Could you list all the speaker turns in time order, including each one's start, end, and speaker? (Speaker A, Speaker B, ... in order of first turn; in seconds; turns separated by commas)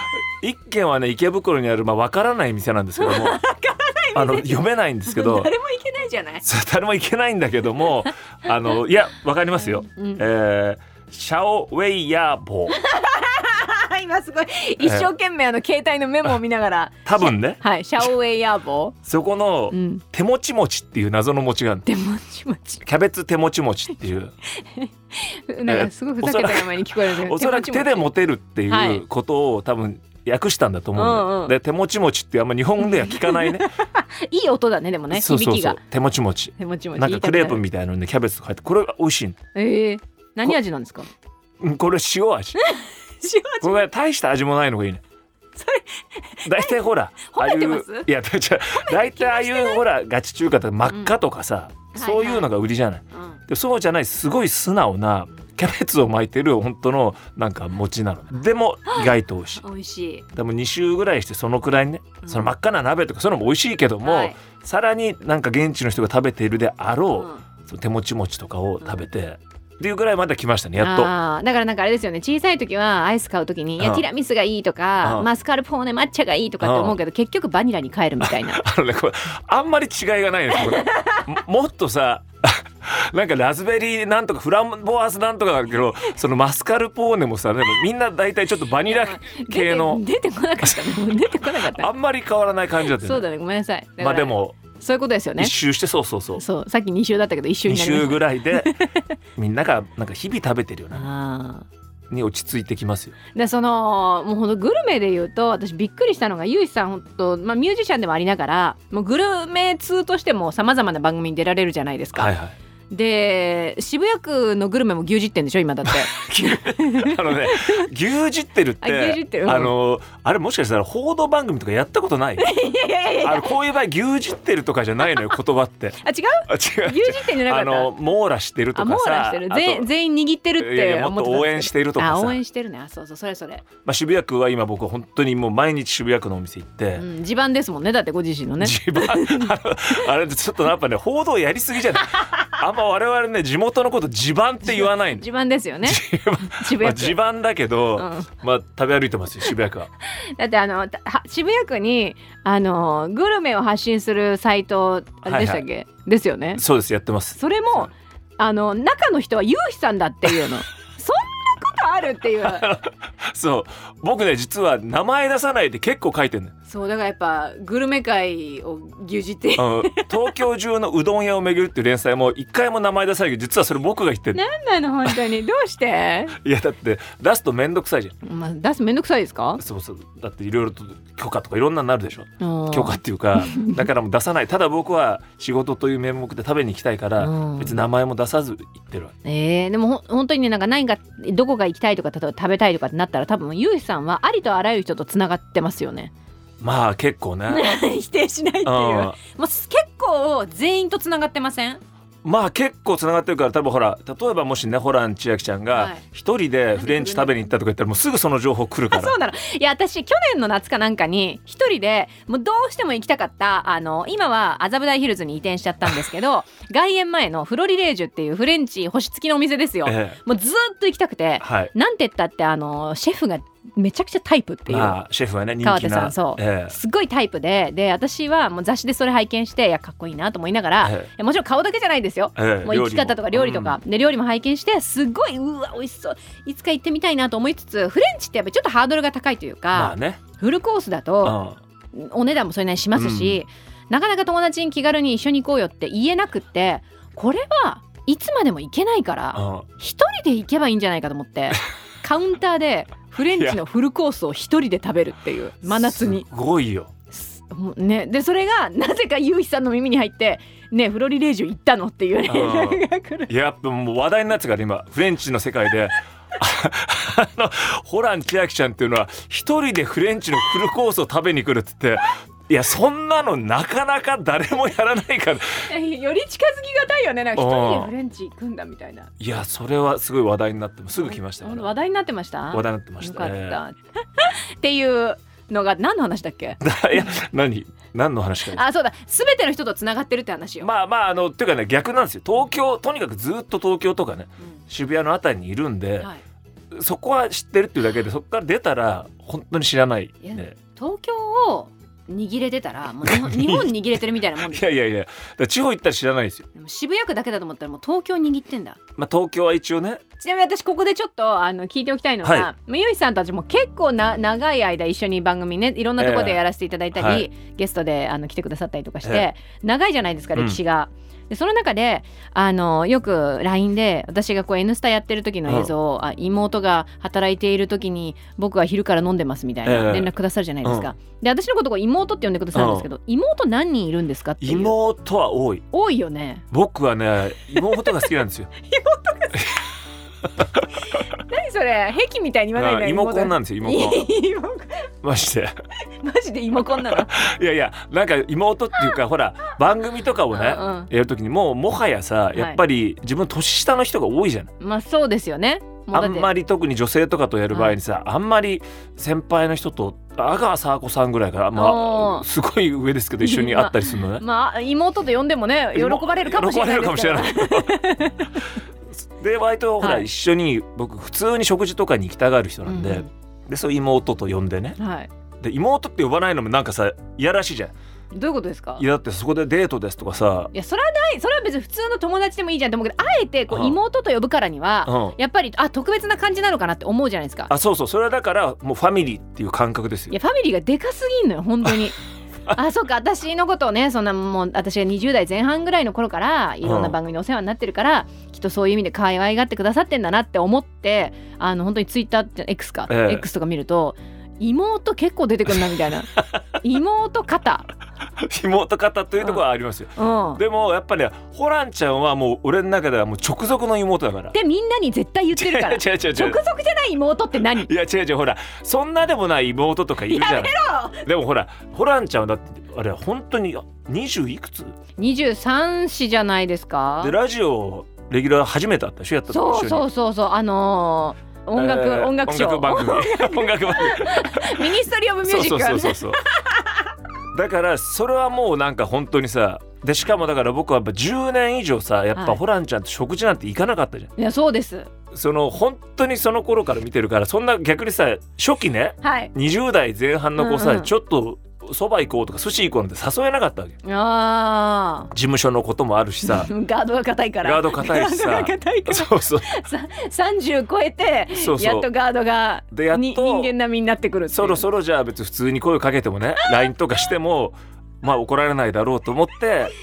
Speaker A: 0.4-3.4, Speaker B: 3.0-6.5, Speaker A: 4.2-5.5, Speaker A: 6.5-12.7, Speaker B: 9.8-10.3, Speaker B: 12.7-19.0, Speaker A: 17.1-17.6, Speaker A: 19.1-21.8, Speaker B: 19.7-20.0, Speaker B: 21.9-22.8, Speaker A: 22.9-24.3, Speaker B: 24.6-28.1, Speaker A: 25.7-26.5, Speaker A: 27.3-33.6, Speaker B: 28.7-29.1, Speaker B: 30.9-31.6, Speaker B: 32.8-35.8, Speaker A: 35.1-39.4, Speaker B: 36.6-37.6, Speaker B: 39.5-41.1, Speaker A: 41.6-42.5, Speaker B: 42.6-43.9, Speaker A: 43.6-45.0, Speaker B: 45.6-48.1, Speaker A: 46.5-59.6, Speaker B: 48.8-49.9, Speaker B: 50.9-51.2, Speaker B: 51.9-52.5, Speaker B: 53.1-53.4, Speaker B: 58.9-60.3, Speaker A: 60.4-71.1, Speaker B: 62.2-62.5, Speaker B: 64.0-64.4, Speaker B: 67.1-67.5, Speaker B: 68.8-69.1, Speaker B: 70.8-78.6, Speaker A: 76.6-76.9, Speaker A: 78.6-82.6, Speaker B: 80.7-81.2, Speaker A: 83.2-90.0, Speaker B: 88.8-91.9, Speaker A: 91.8-93.2, Speaker B: 92.8-95.5, Speaker A: 94.0-94.5, Speaker A: 95.4-96.3, Speaker B: 96.4-98.9, Speaker A: 97.7-98.6, Speaker A: 99.4-101.0, Speaker B: 100.9-101.7, Speaker A: 102.1-103.2, Speaker B: 103.3-112.3, Speaker A: 112.2-112.5, Speaker B: 112.9-117.8, Speaker A: 116.3-122.4, Speaker B: 118.8-119.8, Speaker B: 122.4-123.5, Speaker A: 123.2-126.0, Speaker B: 126.0-127.9, Speaker A: 126.5-127.0, Speaker A: 127.5-129.9, Speaker B: 128.8-133.7, Speaker A: 130.6-132.4, Speaker A: 133.8-137.0, Speaker B: 137.0-139.5, Speaker A: 138.7-142.0, Speaker A: 142.6-145.2, Speaker B: 144.7-147.2, Speaker A: 146.2-149.9, Speaker B: 148.0-148.3, Speaker B: 150.4-156.6, Speaker A: 155.3-155.6, Speaker A: 156.6-157.8, Speaker B: 157.3-162.7, Speaker A: 163.4-166.5, Speaker B: 166.7-170.2, Speaker A: 169.6-174.4, Speaker B: 174.3-176.4, Speaker A: 176.4-178.1, Speaker B: 178.2-179.6, Speaker A: 179.6-189.1, Speaker B: 182.4-183.9, Speaker B: 187.2-187.8, Speaker B: 189.2-196.1, Speaker A: 196.6-197.6, Speaker B: 197.5-201.8, Speaker A: 198.7-199.2, Speaker A: 202.2-209.1, Speaker B: 205.7-206.0, Speaker B: 206.8-207.4, Speaker B: 208.9-225.0, Speaker A: 219.9-220.2, Speaker A: 221.4-221.7, Speaker A: 224.7-226.8, Speaker B: 225.6-241.4, Speaker A: 230.8-231.1, Speaker A: 232.4-233.8, Speaker A: 239.7-240.2, Speaker A: 241.2-241.6, Speaker B: 241.9-256.3, Speaker A: 243.0-243.4, Speaker A: 249.3-249.7, Speaker A: 255.9-256.9, Speaker B: 257.1-263.3, Speaker A: 262.3-275.6, Speaker B: 275.7-279.1, Speaker A: 277.4-277.9, Speaker A: 279.2-281.7, Speaker B: 281.0-287.1, Speaker A: 282.5-283.6, Speaker A: 286.6-288.6, Speaker B: 288.5-290.7, Speaker A: 290.6-296.1, Speaker A: 296.8-300.5, Speaker B: 300.2-304.8, Speaker A: 303.1-303.6, Speaker A: 304.5-306.4, Speaker B: 306.6-308.8, Speaker A: 309.0-310.0, Speaker B: 310.2-334.8, Speaker A: 312.2-312.5, Speaker A: 316.0-316.4, Speaker A: 317.0-317.3, Speaker A: 329.7-330.1, Speaker A: 332.6-332.9, Speaker A: 334.4-335.6, Speaker B: 335.7-336.4, Speaker A: 336.5-338.5, Speaker B: 337.6-338.1, Speaker B: 338.6-339.5, Speaker B: 341.2-344.8, Speaker A: 342.6-343.9, Speaker A: 345.0-345.5, Speaker B: 346.0-347.1, Speaker A: 347.1-354.5, Speaker B: 350.3-350.9, Speaker B: 352.3-352.6, Speaker B: 354.6-356.3, Speaker A: 355.9-364.2, Speaker B: 357.5-357.8, Speaker B: 361.5-362.3, Speaker B: 363.2-368.4, Speaker A: 365.8-367.6, Speaker A: 369.2-374.8, Speaker B: 369.8-370.1, Speaker B: 372.6-373.1, Speaker B: 374.8-375.1, Speaker A: 375.4-377.7, Speaker B: 378.1-378.9, Speaker A: 378.8-380.5, Speaker B: 380.5-387.5, Speaker A: 384.9-385.1, Speaker A: 387.5-390.1, Speaker B: 390.1-392.0, Speaker B: 392.5-407.7, Speaker A: 396.6-396.9, Speaker A: 402.9-403.1, Speaker A: 408.3-414.3, Speaker B: 410.0-410.4, Speaker B: 414.3-417.7, Speaker A: 415.4-416.4, Speaker A: 417.7-420.5, Speaker B: 420.0-421.0, Speaker A: 421.1-424.7, Speaker B: 425.0-427.1, Speaker A: 427.1-429.8, Speaker B: 429.3-436.3, Speaker A: 431.6-433.9, Speaker A: 435.3-436.2, Speaker A: 437.3-444.1, Speaker B: 442.2-442.4, Speaker B: 444.2-444.9, Speaker A: 445.1-453.8, Speaker B: 449.0-449.3, Speaker B: 450.4-450.9, Speaker B: 453.8-455.1, Speaker A: 455.1-456.5, Speaker B: 456.2-464.6, Speaker A: 457.4-459.5, Speaker A: 461.4-461.8, Speaker A: 462.7-463.5, Speaker A: 464.3-469.7, Speaker B: 466.4-466.7